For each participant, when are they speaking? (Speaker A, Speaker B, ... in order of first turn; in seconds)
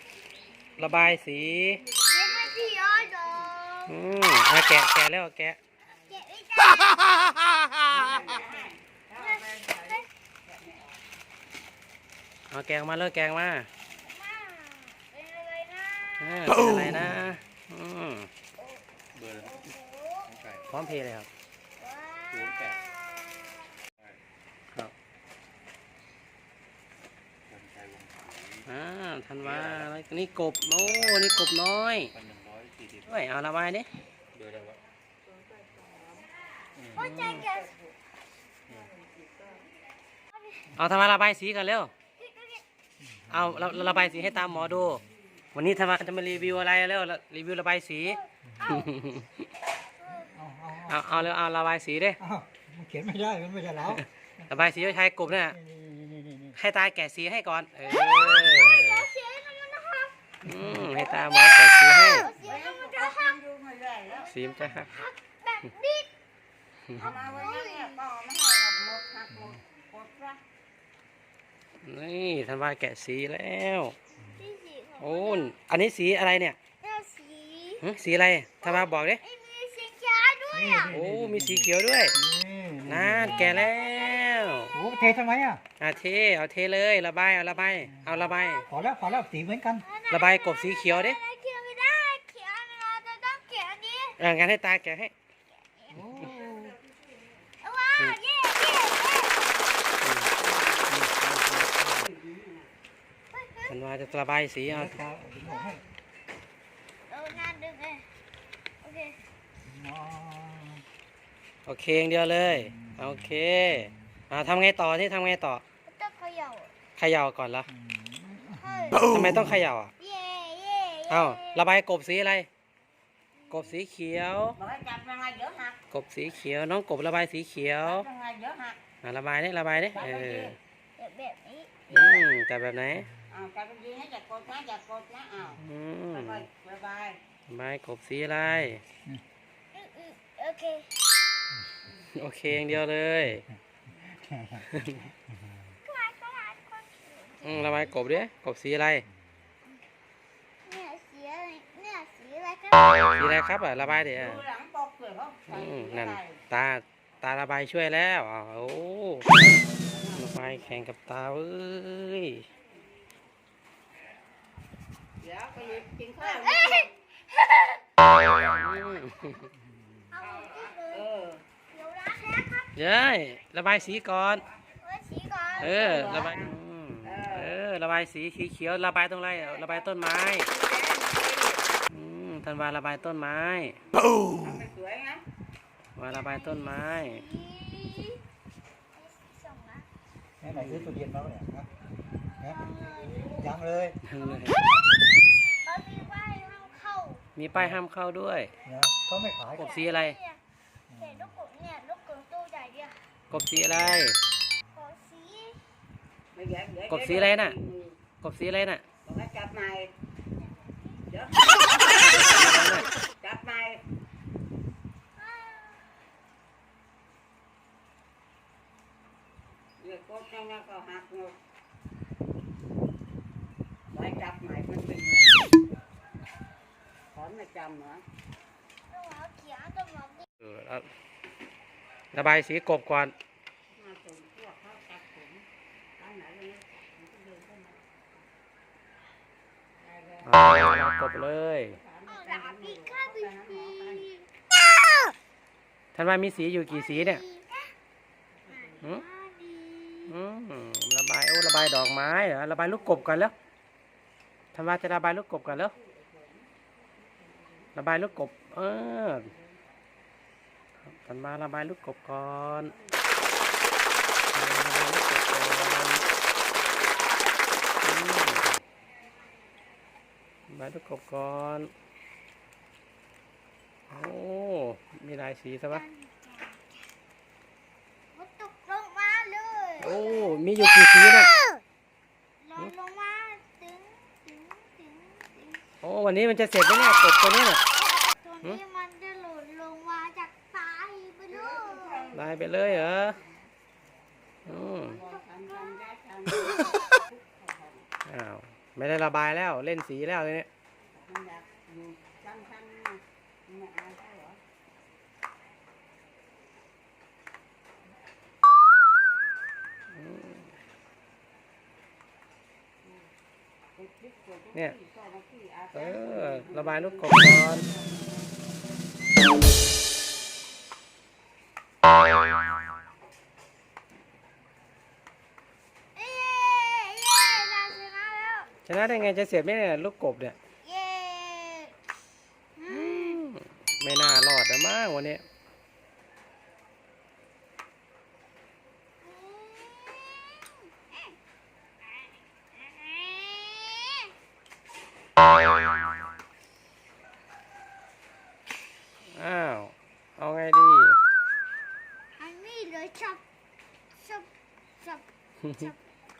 Speaker A: 0.8-1.9, 3.9-5.6, 7.4-8.3, 12.5-13.7, 16.2-18.3, 20.7-21.3, 28.6-32.1, 33.0-33.9, 37.0-37.6, 40.7-41.9, 43.3-45.0, 45.5-49.4, 50.9-52.2, 53.8-55.6, 56.5-59.1, 60.4-62.3, 64.2-65.0, 71.8-73.9, 75.0-76.6, 77.8-79.2, 80.9-82.2, 82.8-84.8, 85.8-88.7, 90.1-91.2, 94.2-95.1, 96.2-96.7, 100.0-100.3, 100.9-102.1, 103.7-105.0, 111.7-115.6, 117.0-117.7, 119.0-119.9, 121.1-122.5, 123.5-124.6, 125.9-128.1, 129.0-130.6, 131.9-133.1, 135.6-136.5, 137.5-138.8, 142.1-143.4, 144.6-145.1, 147.4-149.1, 153.1-154.4, 155.5-159.4, 160.1-162.5, 168.3-169.5, 172.7-174.4, 175.6-180.5, 181.9-183.8, 185.9-187.2, 190.4-190.9, 194.0-194.6, 197.3-198.5, 199.6-200.2, 203.3-204.2, 206.9-207.5, 208.2-208.8, 212.2-212.9, 230.4-230.9, 232.1-233.1, 240.2-241.8, 245.9-247.2, 250.1-253.3, 254.5-255.7, 257.8-259.3, 260.9-262.7, 264.3-266.0, 267.8-268.6, 270.5-271.7, 273.9-275.8, 279.8-281.3, 285.8-287.6, 292.1-293.2, 294.4-295.0, 298.0-300.5, 309.9-310.5, 315.7-317.6, 328.6-330.4, 332.7-335.2, 349.1-351.0
Speaker B: 2.0-4.9, 5.9-7.4, 9.2-10.0, 13.9-16.6, 18.6-21.0, 21.8-23.7, 37.0-37.7, 40.3-40.6, 42.2-42.6, 48.0-49.0, 50.0-50.3, 57.8-60.3, 60.9-63.4, 64.1-66.1, 67.1-68.0, 74.4-75.5, 76.8-77.9, 78.6-81.0, 83.4-84.7, 89.8-94.2, 95.6-96.6, 97.6-99.7, 103.3-104.1, 105.4-105.8, 107.1-108.1, 108.8-109.2, 115.9-116.8, 118.5-119.1, 120.0-121.6, 123.4-123.8, 131.0-131.9, 139.7-141.0, 145.8-148.3, 150.6-153.4, 166.2-167.9, 170.1-171.1, 171.7-173.0, 174.8-176.2, 186.1-188.2, 188.9-189.9, 192.4-193.4, 194.1-195.0, 195.6-197.2, 199.5-200.4, 200.9-202.9, 204.7-205.6, 215.2-215.9, 228.9-230.3, 242.1-245.1, 246.7-247.7, 248.5-250.2, 275.7-276.8, 278.1-280.6, 281.2-281.6, 282.4-285.6, 286.7-292.2, 294.9-295.9, 325.9-328.5, 330.6-331.9, 332.6-333.2, 339.0-341.1, 341.8-344.1, 352.2-353.2, 353.9-354.3, 354.8-355.8
Speaker C: 7.9-11.0, 62.2-64.3, 67.0-70.4, 100.4-101.0, 102.0-102.7, 124.5-125.8, 127.8-128.8, 129.9-130.6, 131.9-132.2, 133.3-137.2, 154.1-156.4, 159.8-160.8, 165.2-166.9, 170.2-171.4, 175.5-177.6, 179.5-181.7, 184.0-185.2, 206.3-208.0, 209.0-209.9, 211.1-213.8, 219.8-221.3, 223.9-225.5, 227.1-228.0, 233.7-235.4, 236.0-238.0, 239.8-240.8, 241.7-244.1, 248.4-249.0, 252.8-253.2, 255.5-256.5, 257.0-257.8, 259.2-259.7, 262.6-263.2, 291.3-293.4, 294.8-297.9, 300.9-304.4, 313.8-318.3
Speaker D: 19.1-19.7, 20.3-20.6, 22.3-22.8, 27.5-28.6, 29.4-29.9, 30.7-31.5, 32.1-33.1, 34.3-34.8, 36.8-37.1
Speaker E: 50.2-51.3, 52.2-54.0, 55.5-56.5, 80.5-83.7, 84.7-85.6, 88.0-89.9, 95.9-96.7, 104.7-105.8, 109.6-110.8, 112.6-113.2, 117.8-119.6, 144.2-144.6, 190.4-191.7, 193.3-194.0, 198.6-199.8, 200.9-201.2